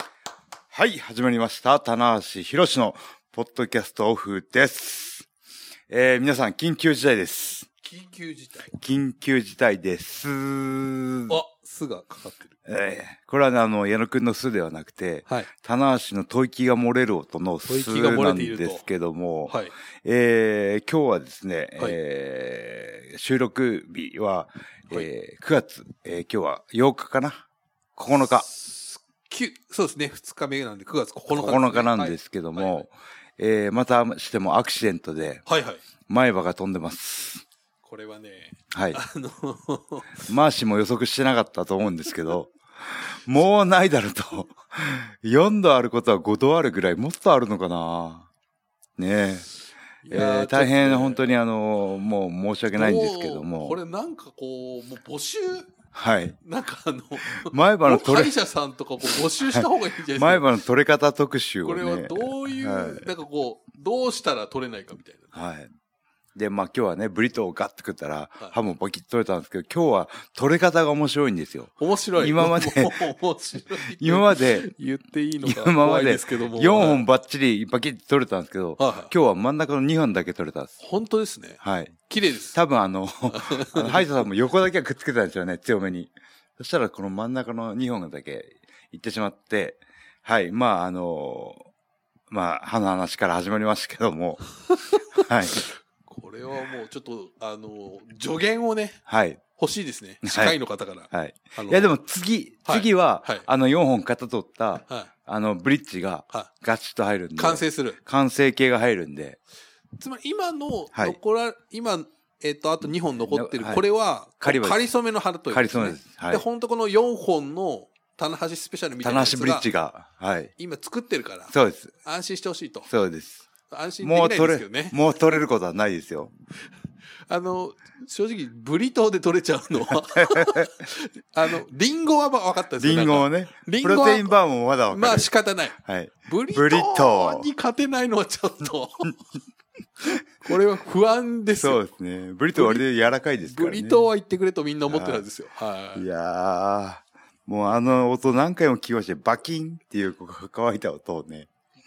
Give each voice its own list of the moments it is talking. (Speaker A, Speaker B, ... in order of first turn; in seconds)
Speaker A: 0.7-5.3, 5.9-7.7, 8.7-11.3, 12.7-27.4, 27.9-28.5, 31.3-35.4, 36.1-37.4, 38.7-39.0, 40.2-48.3, 49.0-49.5, 50.1-53.8, 55.9-56.4, 57.4-58.3, 59.5-63.0, 65.3-65.7, 66.3-73.1, 73.7-74.7, 75.4-80.8, 81.6-82.0, 82.5-91.7, 92.3-94.4, 95.1-95.7, 99.1-99.4, 100.2-100.5, 101.1-109.4, 113.2-113.8, 114.4-114.9, 115.5-116.4, 119.0-120.5, 121.5-121.9, 122.9-123.4, 124.0-126.3, 130.1-130.7, 132.8-137.5, 141.6-144.0, 144.9-145.2, 145.9-151.5
Speaker B: 7.8-8.7, 11.3-12.5, 17.7-18.8, 19.5-19.7, 28.2-32.8, 35.5-35.8, 37.8-40.2, 50.0-51.4, 52.7-55.8, 56.4-60.5, 61.6-65.3, 71.8-77.0, 78.8-79.1, 80.8-82.6, 83.3-84.2, 94.7-99.0, 99.5-101.9, 102.7-103.5, 104.8-105.1, 107.4-108.0, 110.0-119.7, 120.6-122.9, 123.7-125.0, 127.3-134.3, 134.9-139.2, 140.4-141.8, 142.5-142.8, 143.4-146.1